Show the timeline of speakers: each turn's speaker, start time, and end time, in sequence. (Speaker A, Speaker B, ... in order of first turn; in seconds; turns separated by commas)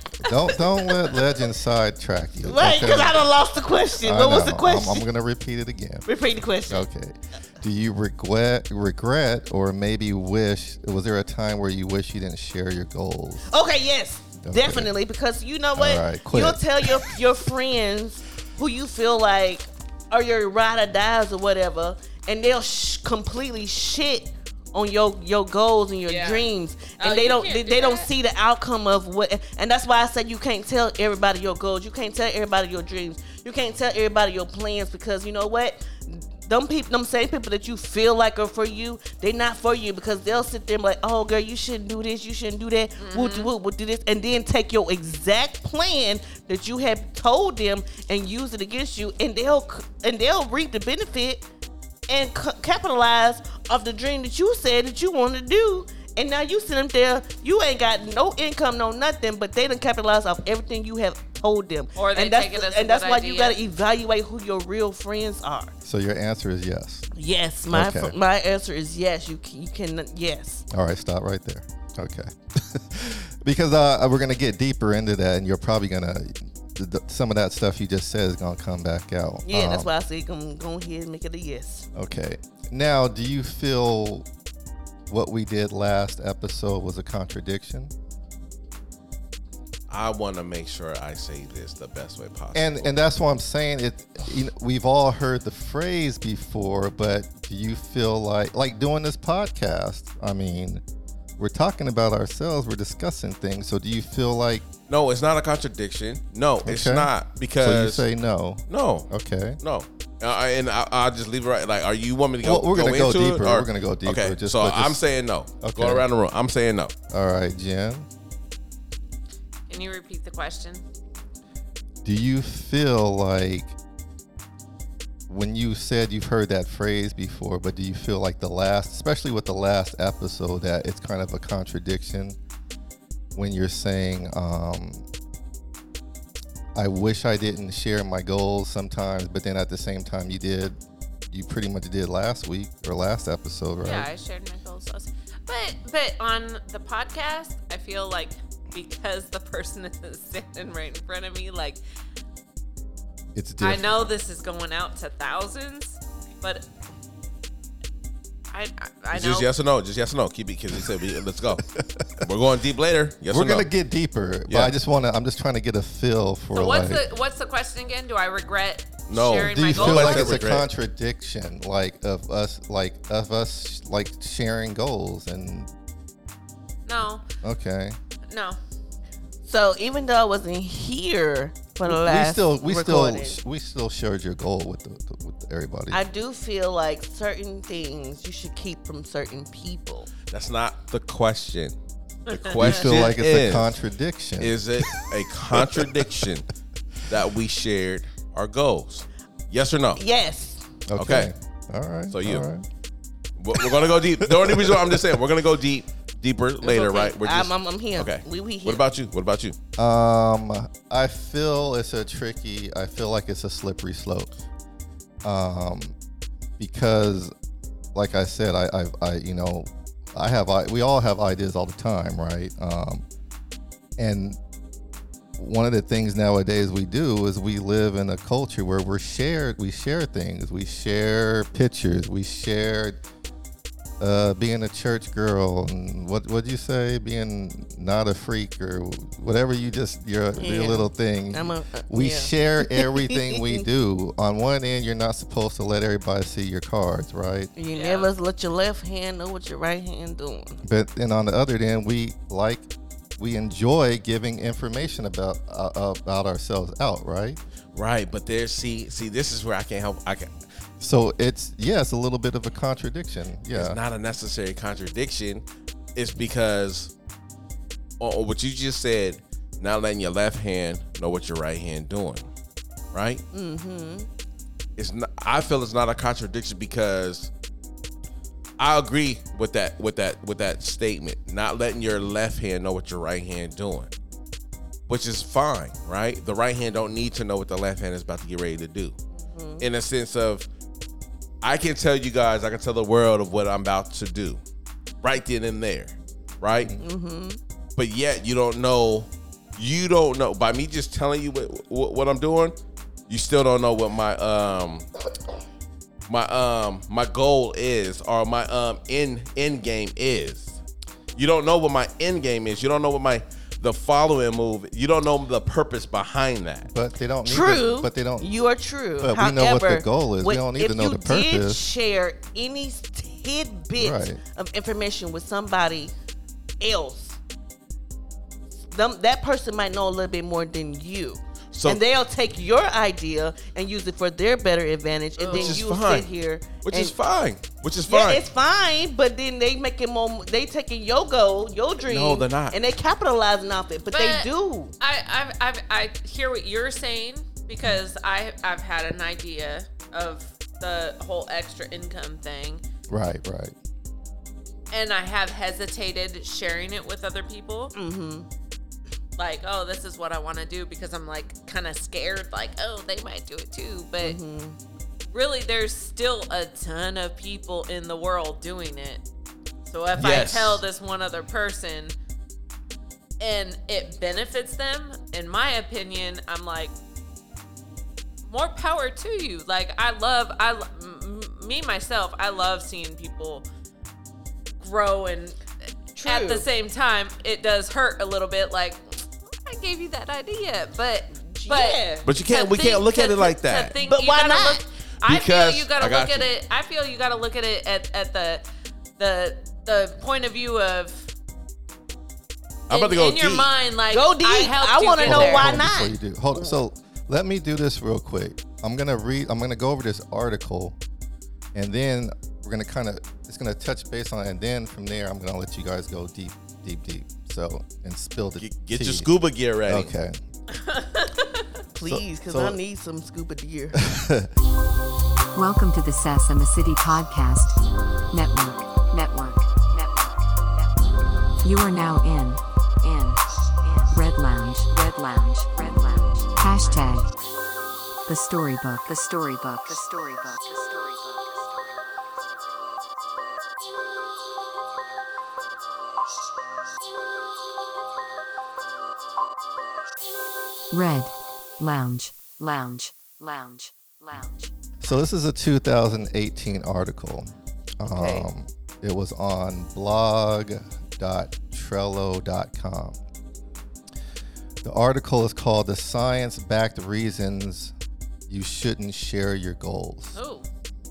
Speaker A: 0.2-3.2, Speaker B: 2.4-5.1, Speaker A: 4.0-6.1, Speaker B: 6.1-6.8, Speaker A: 6.7-13.5, Speaker B: 13.5-51.5, Speaker A: 14.4-14.9, Speaker A: 15.8-17.2, Speaker C: 26.1-28.1, Speaker C: 43.0-43.5, Speaker B: 52.1-65.7, Speaker C: 62.0-63.6, Speaker A: 65.8-67.1, Speaker B: 67.2-70.7, Speaker A: 67.7-68.2, Speaker A: 70.7-79.9, Speaker B: 79.5-81.9, Speaker A: 82.0-84.3, Speaker A: 85.1-87.9, Speaker D: 89.9-93.0, Speaker A: 92.5-100.8, Speaker A: 101.4-104.7, Speaker D: 104.9-108.1, Speaker A: 106.6-109.6, Speaker D: 108.7-109.1, Speaker D: 109.6-116.9, Speaker A: 112.4-115.0, Speaker A: 115.6-116.1, Speaker A: 117.1-118.1, Speaker C: 119.7-120.8, Speaker A: 122.0-123.8, Speaker A: 125.3-132.4, Speaker A: 133.3-135.1, Speaker A: 136.8-140.8, Speaker A: 141.3-144.1, Speaker C: 143.8-151.8, Speaker A: 153.3-154.1, Speaker C: 153.6-156.7, Speaker C: 158.5-159.5, Speaker D: 159.1-161.7, Speaker A: 161.8-162.2, Speaker D: 162.2-163.7, Speaker A: 163.3-167.1, Speaker D: 164.5-164.7, Speaker C: 166.5-170.5, Speaker D: 169.1-170.7, Speaker A: 169.4-175.7, Speaker C: 176.9-177.2, Speaker A: 177.4-178.0, Speaker C: 178.3-178.6, Speaker B: 179.5-183.4, Speaker A: 181.8-186.0, Speaker B: 185.9-190.1, Speaker D: 190.3-191.8, Speaker C: 192.3-192.9, Speaker D: 192.3-193.7, Speaker A: 192.6-196.3, Speaker D: 194.4-196.5, Speaker D: 197.1-200.0, Speaker B: 200.0-200.7, Speaker A: 200.9-202.7, Speaker D: 201.0-201.3, Speaker D: 202.1-202.4, Speaker D: 203.4-209.6, Speaker A: 203.6-205.1, Speaker B: 206.6-208.8, Speaker A: 209.8-214.3, Speaker A: 215.2-216.0, Speaker A: 216.6-217.3, Speaker A: 217.9-223.1, Speaker A: 224.0-224.4, Speaker A: 225.4-233.0, Speaker A: 234.0-247.5, Speaker B: 240.4-243.6, Speaker B: 247.6-250.6, Speaker C: 247.7-248.1, Speaker A: 250.6-257.4, Speaker D: 257.7-260.3, Speaker A: 260.8-263.8, Speaker D: 263.5-266.9, Speaker D: 268.0-272.3, Speaker D: 272.9-273.2, Speaker B: 273.3-274.1, Speaker D: 274.8-277.3, Speaker D: 278.6-283.9, Speaker D: 284.9-288.9, Speaker B: 289.1-289.7, Speaker D: 289.6-290.5, Speaker D: 291.4-294.4, Speaker D: 295.0-296.7, Speaker A: 296.6-296.9, Speaker B: 296.8-297.4, Speaker D: 297.8-302.6, Speaker D: 303.1-304.9, Speaker D: 306.1-310.6, Speaker D: 311.1-316.7, Speaker A: 316.7-318.3, Speaker B: 317.2-325.9, Speaker A: 319.0-321.6, Speaker A: 323.8-324.2, Speaker B: 326.6-327.2, Speaker B: 328.6-337.0, Speaker D: 331.5-331.8, Speaker C: 335.2-335.6, Speaker D: 335.3-336.1, Speaker D: 336.6-338.2, Speaker B: 337.9-344.7, Speaker D: 341.9-342.6, Speaker C: 343.9-344.3, Speaker C: 344.8-352.6, Speaker A: 352.9-353.6, Speaker C: 354.7-357.7, Speaker B: 357.8-358.3, Speaker C: 359.2-364.2, Speaker B: 364.0-364.6, Speaker C: 365.1-369.0, Speaker C: 369.6-371.9, Speaker D: 370.0-370.6, Speaker C: 373.2-376.8, Speaker C: 378.2-383.5, Speaker C: 384.6-385.4, Speaker B: 386.0-386.5, Speaker C: 386.0-398.4, Speaker B: 391.1-392.1, Speaker D: 392.1-393.8, Speaker B: 393.8-394.6, Speaker D: 395.0-396.3, Speaker C: 399.0-401.1, Speaker D: 402.7-403.5, Speaker C: 402.7-405.6, Speaker B: 403.9-406.5, Speaker A: 405.0-410.8, Speaker A: 411.6-419.1, Speaker D: 418.4-419.9, Speaker A: 419.7-420.2, Speaker C: 420.5-421.4, Speaker B: 421.7-423.8, Speaker A: 421.8-422.6, Speaker A: 423.8-424.3, Speaker E: 425.3-427.6, Speaker E: 428.1-430.2, Speaker E: 431.4-437.2, Speaker E: 438.1-441.5, Speaker E: 450.7-455.0, Speaker A: 454.8-463.0, Speaker B: 457.9-458.3, Speaker A: 464.6-467.7, Speaker A: 468.3-470.2, Speaker C: 470.2-470.5